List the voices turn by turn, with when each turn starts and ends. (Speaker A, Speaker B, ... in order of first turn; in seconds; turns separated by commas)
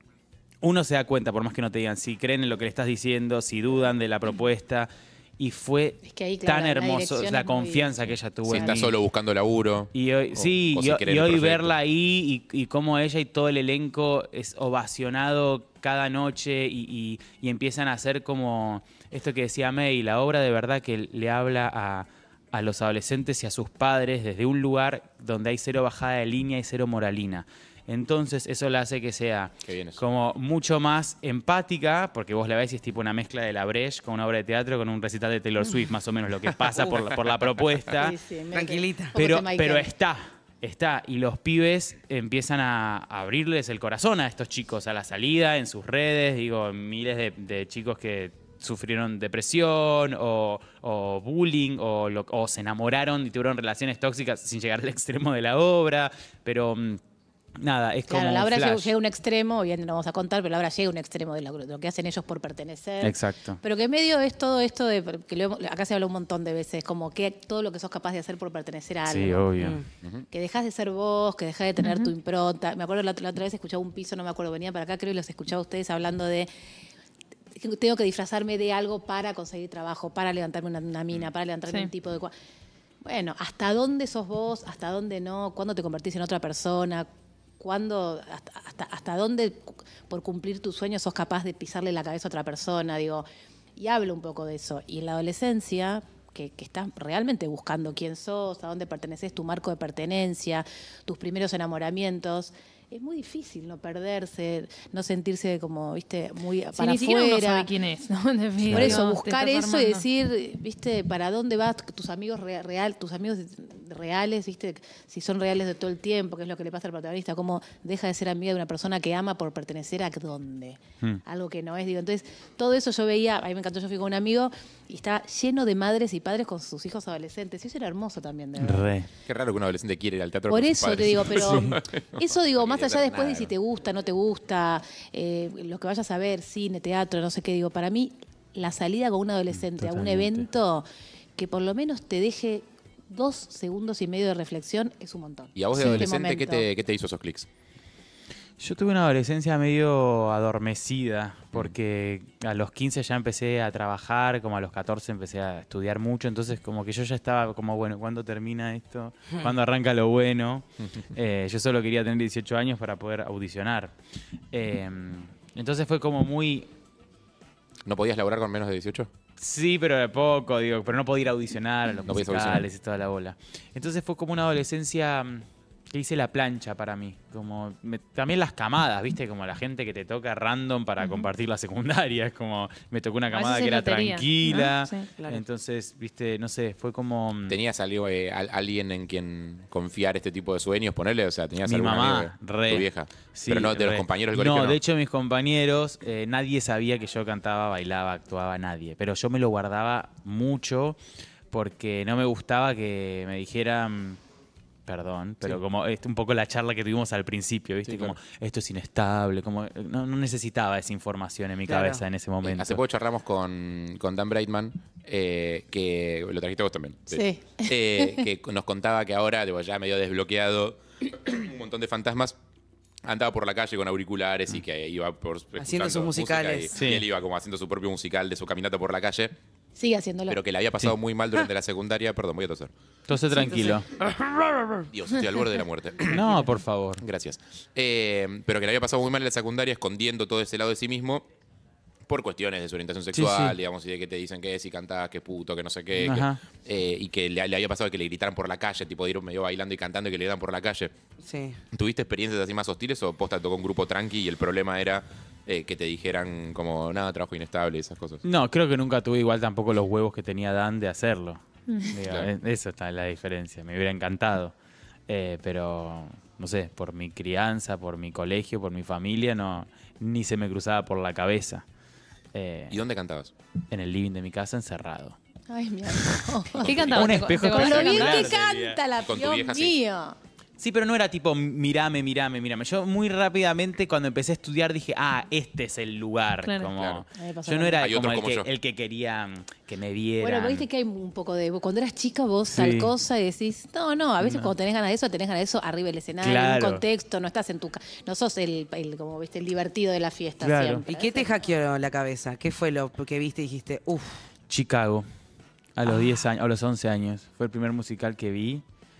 Speaker A: 0.6-8.9, Speaker B: 6.0-8.8, Speaker C: 8.4-11.8, Speaker A: 9.9-38.2, Speaker C: 29.6-30.0, Speaker B: 37.9-39.9, Speaker D: 38.5-39.1, Speaker A: 39.1-57.0, Speaker A: 57.6-58.9, Speaker B: 58.1-69.5, Speaker A: 63.0-63.6, Speaker A: 69.1-69.8, Speaker D: 69.6-69.8, Speaker B: 70.3-76.5, Speaker E: 71.8-72.1, Speaker B: 77.6-82.3, Speaker B: 83.0-87.1, Speaker B: 87.6-93.2, Speaker B: 93.8-107.7, Speaker E: 106.7-110.0, Speaker A: 108.6-109.0, Speaker B: 108.7-128.9, Speaker A: 128.6-129.1, Speaker C: 129.3-133.5, Speaker B: 130.5-140.8, Speaker A: 139.6-140.5, Speaker B: 141.4-146.6, Speaker C: 145.6-147.5, Speaker A: 145.8-146.0, Speaker A: 148.6-163.9, Speaker A: 164.5-166.7, Speaker C: 167.8-169.1, Speaker A: 169.4-187.6, Speaker C: 172.1-172.7, Speaker E: 181.0-181.3, Speaker E: 183.3-185.1, Speaker C: 187.5-194.8, Speaker A: 191.6-201.0, Speaker A: 201.5-204.2, Speaker A: 204.9-212.8, Speaker C: 207.8-208.2, Speaker D: 211.7-212.0, Speaker C: 212.4-222.3, Speaker B: 217.1-218.2, Speaker C: 223.0-229.3, Speaker D: 225.6-226.7, Speaker A: 226.7-227.1, Speaker B: 229.8-230.4, Speaker C: 230.3-232.7, Speaker A: 233.1-233.8, Speaker D: 233.3-234.9, Speaker C: 234.9-236.4, Speaker A: 236.1-237.0, Speaker C: 237.0-241.2, Speaker C: 242.1-250.9, Speaker A: 243.1-243.6, Speaker A: 246.0-246.4, Speaker D: 251.2-251.6, Speaker C: 251.7-258.2, Speaker A: 258.2-264.5, Speaker E: 261.7-261.9, Speaker C: 262.0-262.3, Speaker A: 265.1-271.6, Speaker A: 272.3-272.8, Speaker C: 272.7-273.3, Speaker A: 273.7-275.2, Speaker B: 275.5-276.9, Speaker C: 276.6-277.2, Speaker E: 276.6-278.3, Speaker A: 276.9-278.8, Speaker B: 277.4-280.2, Speaker C: 277.9-278.4, Speaker C: 279.0-279.8, Speaker A: 280.6-290.6, Speaker E: 286.4-286.7, Speaker C: 286.6-287.0, Speaker B: 287.1-287.9, Speaker C: 287.8-288.5, Speaker B: 290.2-301.4, Speaker A: 292.5-292.9, Speaker A: 294.2-294.5, Speaker A: 296.2-296.8, Speaker A: 300.4-300.8, Speaker D: 300.9-304.2, Speaker A: 304.5-305.1, Speaker A: 305.8-308.6